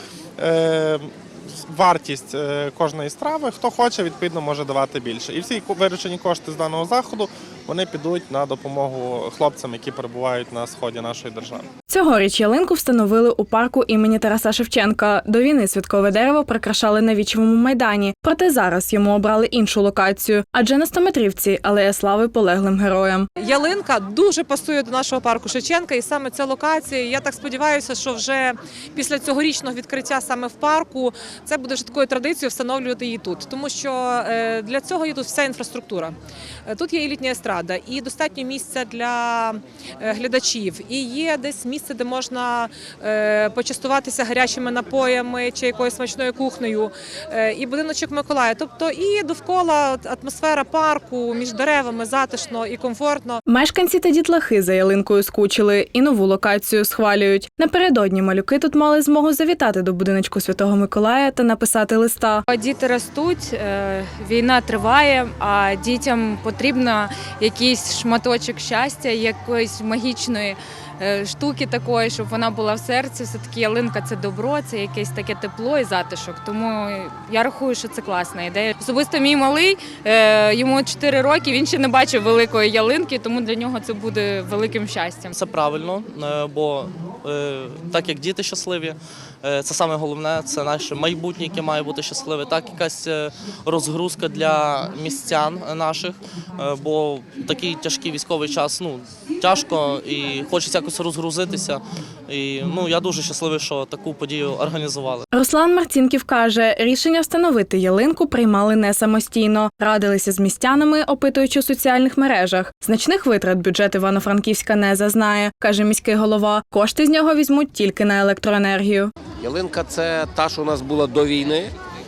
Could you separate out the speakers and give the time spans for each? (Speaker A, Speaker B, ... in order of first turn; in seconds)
Speaker A: 0.4-11.7
Speaker B: 11.9-23.3, 53.5-62.4, 105.3-119.1
Speaker C: 23.4-36.1, 36.7-53.4
Speaker D: 62.5-85.3
Speaker E: 85.3-105.3
Speaker F: 119.4-121.7